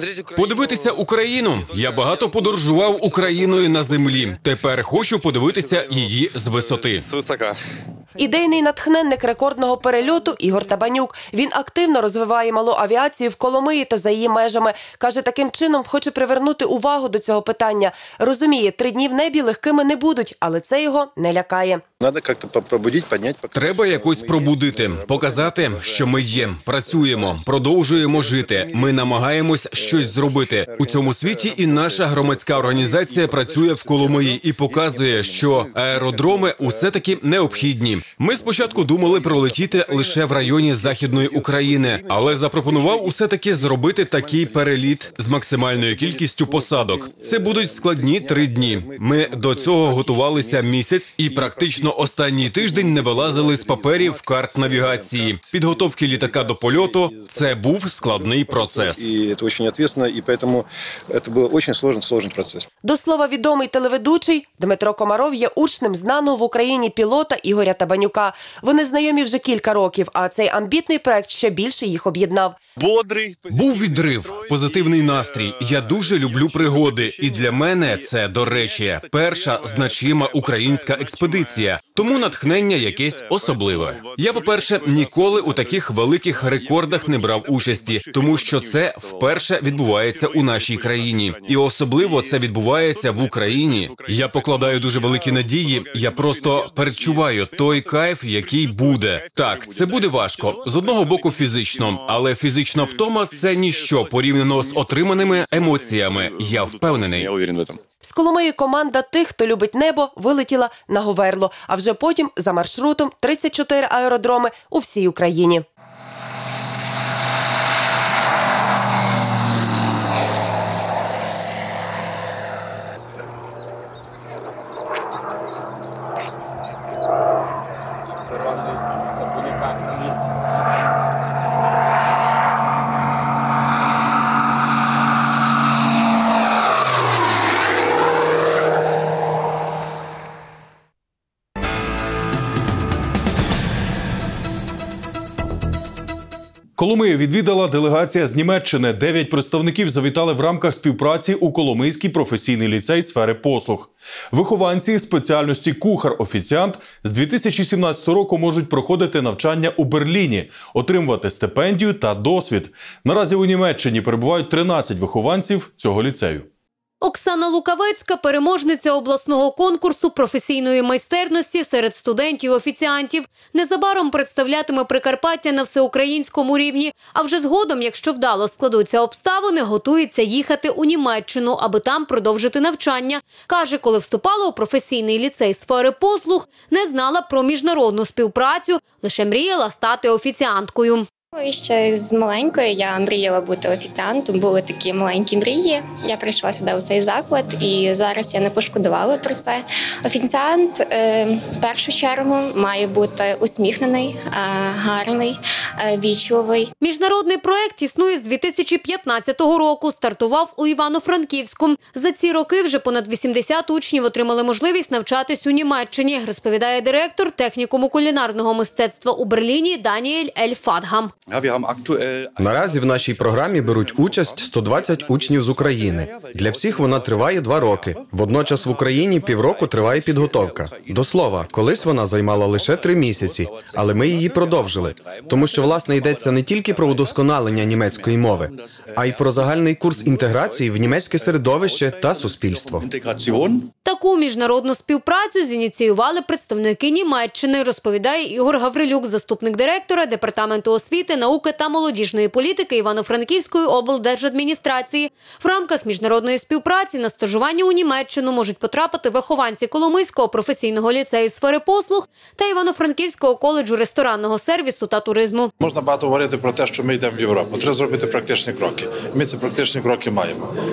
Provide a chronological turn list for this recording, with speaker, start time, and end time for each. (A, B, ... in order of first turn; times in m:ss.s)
0:00.4-0:07.1 A
0:08.2-0:21.8 B
0:22.0-0:23.2 C
0:23.5-0:59.1 A
0:59.0-1:02.6 C
1:02.8-1:12.6 B
1:13.5-1:47.4 A
1:48.0-1:55.6 B
2:26.8-2:46.5 D
2:47.0-3:11.1 E
3:11.4-3:26.7 F
3:26.8-3:41.1 E
3:42.4-4:02.9 G
4:03.8-4:25.5 E
4:25.6-4:30.3 H